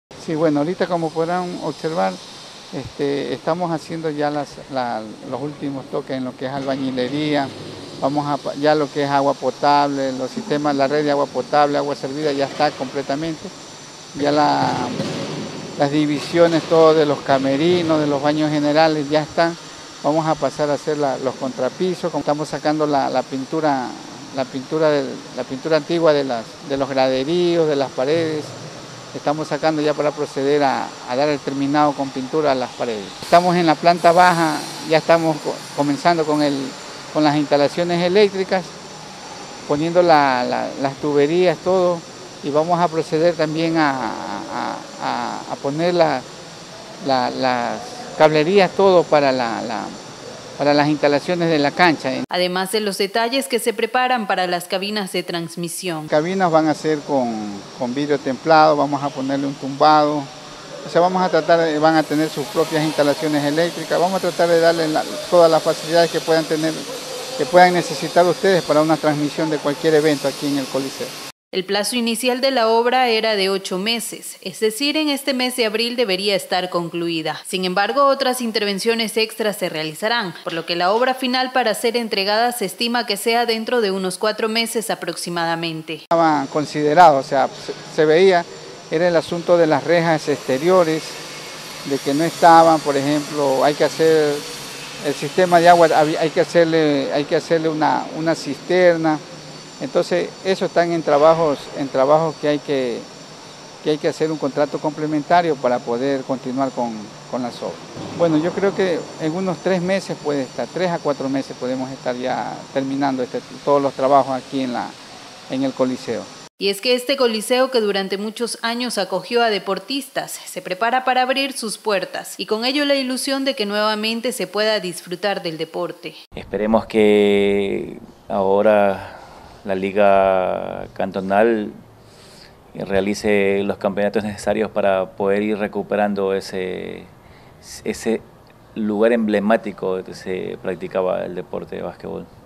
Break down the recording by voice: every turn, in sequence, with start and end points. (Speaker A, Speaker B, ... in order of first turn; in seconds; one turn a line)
Speaker A: 0.2-2.2
Speaker A: 2.7-13.5
Speaker A: 14.1-15.0
Speaker A: 15.8-28.6
Speaker A: 29.1-38.7
Speaker A: 39.7-46.2
Speaker A: 47.0-50.0
Speaker A: 50.6-52.2
Speaker B: 52.3-56.1
Speaker A: 56.1-60.3
Speaker A: 60.8-71.1
Speaker B: 71.5-86.0
Speaker A: 86.1-91.2
Speaker A: 91.8-94.5
Speaker A: 95.0-99.2
Speaker A: 99.8-103.1
Speaker A: 103.8-115.0
Speaker A: 115.5-116.3
Speaker B: 116.6-126.2
Speaker C: 126.3-131.8
Speaker C: 132.7-137.1
Speaker C: 137.6-138.2
Speaker C: 138.7-142.3